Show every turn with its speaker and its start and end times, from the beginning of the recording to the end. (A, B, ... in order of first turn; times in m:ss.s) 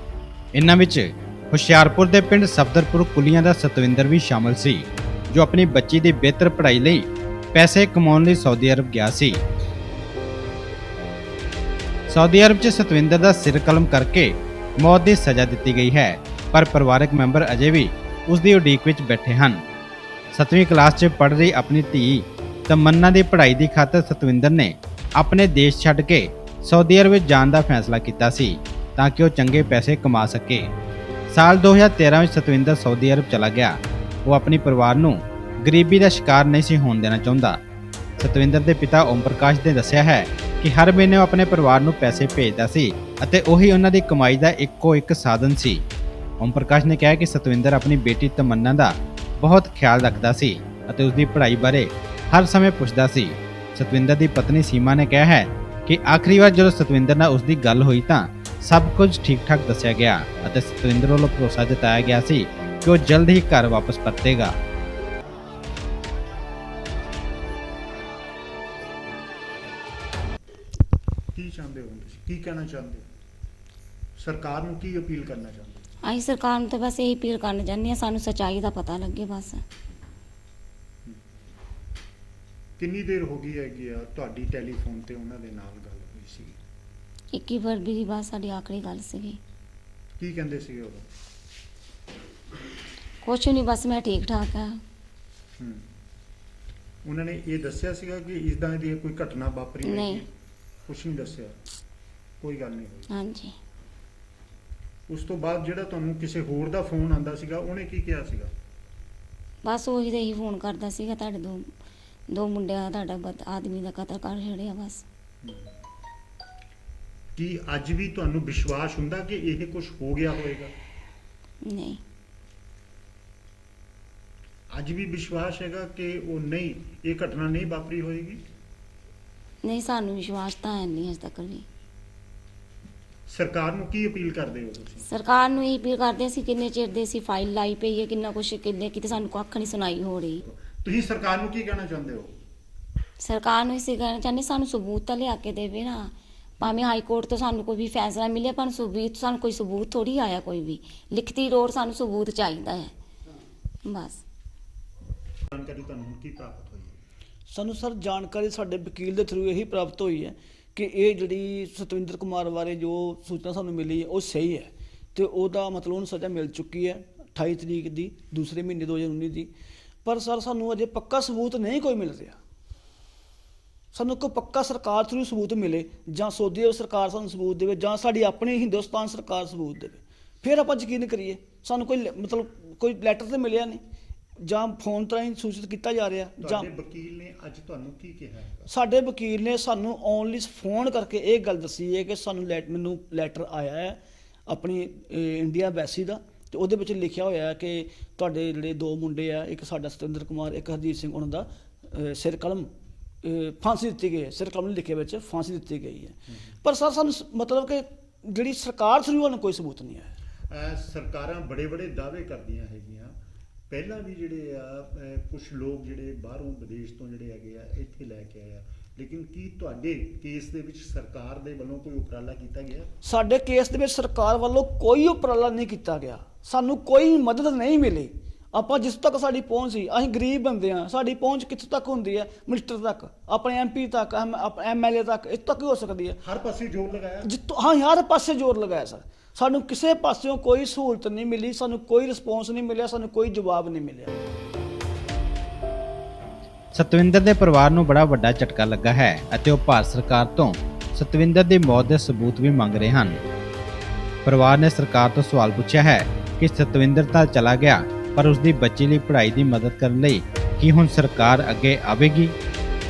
0:00.5-0:09.4 A
0:12.1-0:19.6 A
0:20.3-0:30.7 A
0:31.3-0:37.6 A
0:38.2-0:45.8 A
0:46.4-1:04.5 A
1:11.3-1:13.0 B
1:14.2-1:15.8 B
1:16.0-1:19.6 C
1:22.8-1:26.6 B
1:27.3-1:29.4 C
1:30.2-1:31.0 B
1:33.2-1:34.8 C
1:37.0-1:40.3 B
1:39.8-1:40.2 C
1:40.8-1:41.5 B
1:42.4-1:43.1 B
1:43.1-1:43.5 C
1:45.1-1:48.5 B
1:49.6-1:51.6 C
1:52.3-1:55.0 C
1:55.4-1:55.7 B
1:57.4-2:00.7 B
2:01.6-2:02.0 C
2:04.7-2:08.4 B
2:09.6-2:11.6 C
2:13.3-2:15.1 B
2:15.1-2:20.4 C
2:20.5-2:22.3 B
2:23.2-2:32.9 C
2:33.8-2:34.2 C
2:35.5-2:37.0 B
2:37.5-2:49.5 D
2:50.0-2:52.4 D
2:53.9-3:03.8 D
3:04.4-3:06.7 D
3:06.4-3:08.7 B
3:08.7-3:22.7 D
3:23.2-3:30.1 D
3:30.5-3:33.1 B
3:33.7-3:42.9 B
3:43.0-3:56.2 D
3:56.2-3:57.3 B
3:57.2-4:04.2 D
4:06.7-4:13.2 A
4:14.2-4:22.3 A